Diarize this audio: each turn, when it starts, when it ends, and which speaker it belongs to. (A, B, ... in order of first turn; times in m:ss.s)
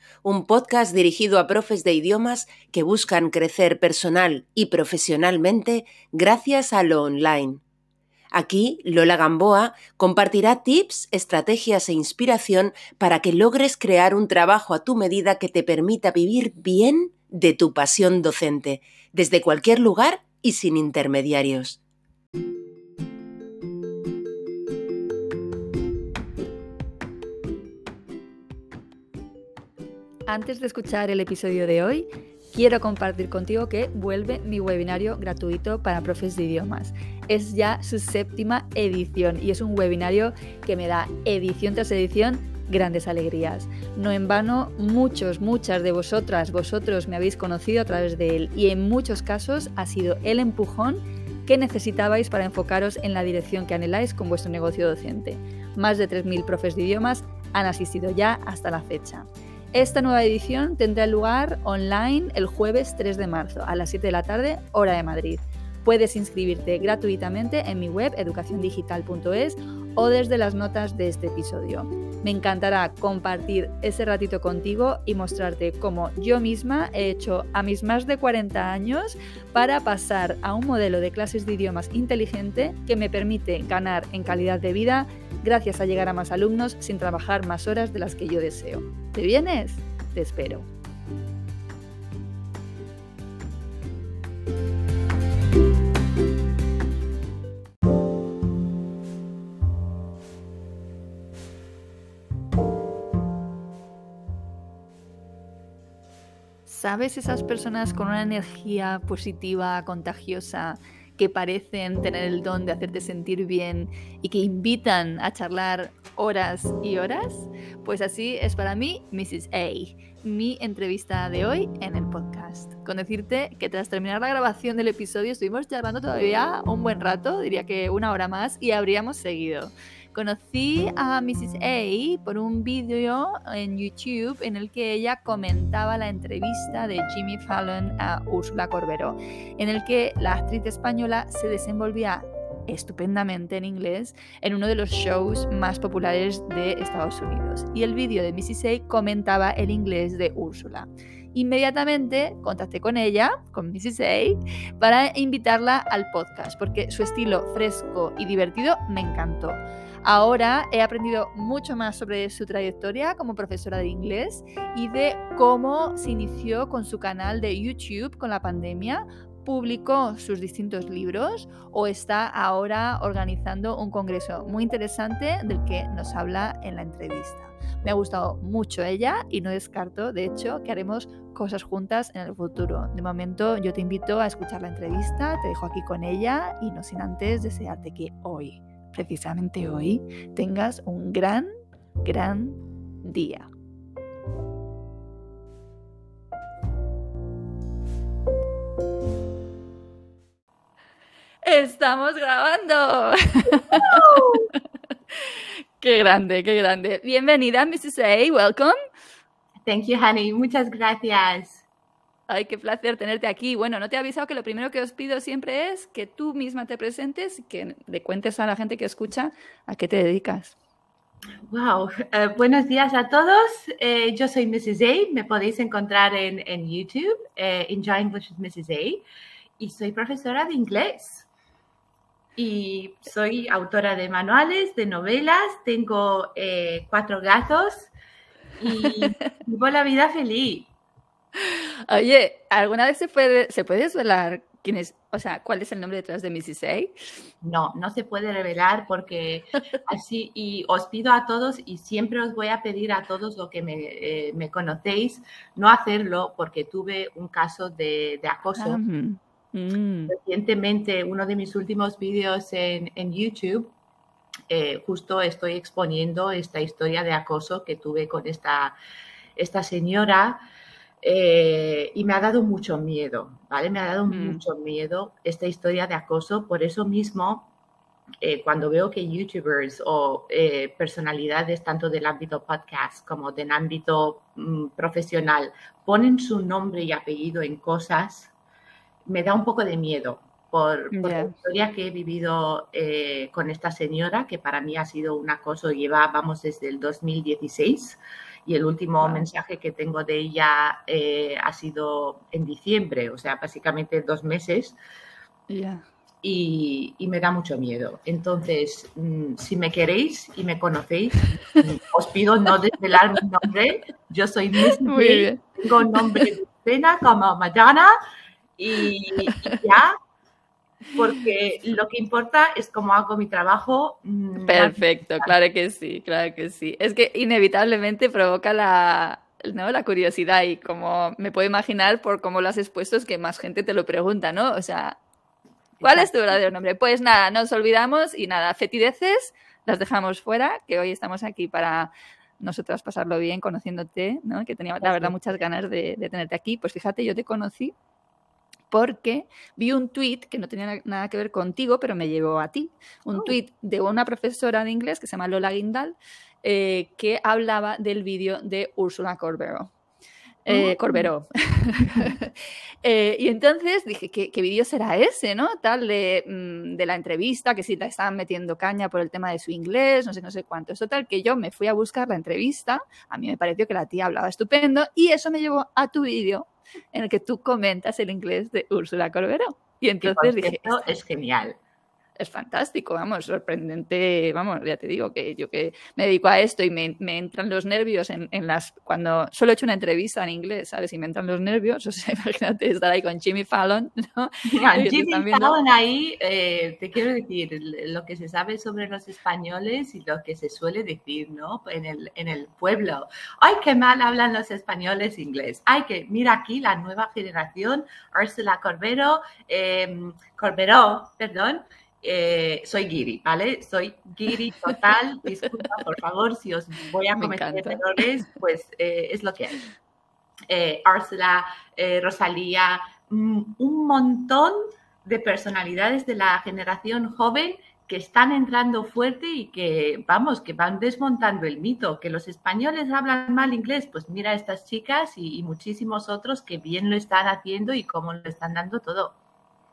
0:00.2-0:07.6 A
0:08.3-0:21.8 A
0:30.3-1:30.7 B
1:46.7-3:11.5 B
3:12.0-3:13.5 B
3:21.4-3:24.4 B
3:23.7-3:24.5 C
3:25.1-3:28.8 B
3:29.6-3:31.6 C
3:32.3-3:40.6 B
3:41.5-3:49.0 C
3:49.6-3:51.3 C
3:52.4-3:57.9 C
3:58.6-4:00.7 C
3:58.9-3:59.1 B
4:01.4-4:07.3 B
4:07.4-4:18.8 C
4:18.6-4:20.2 B
4:20.1-4:23.7 C
4:24.5-4:28.8 C
4:29.4-4:30.4 C
4:31.0-4:37.5 C
4:34.1-4:34.4 B
4:38.2-4:48.3 C
4:49.1-5:04.8 C
4:50.9-4:51.4 B
5:05.5-5:05.8 B
5:06.2-5:17.9 C
5:14.8-5:16.3 B
5:18.6-5:20.0 C
5:20.9-5:25.3 C
5:24.4-5:35.0 B
5:35.8-5:36.4 C
5:35.8-5:47.7 B
5:44.8-5:45.4 C
5:48.7-5:59.7 B
6:00.4-6:20.9 B
6:00.5-6:01.1 C
6:20.0-6:21.6 C
6:22.2-6:35.6 B
6:34.5-6:59.6 C
6:57.2-6:57.8 B
7:00.5-7:19.2 C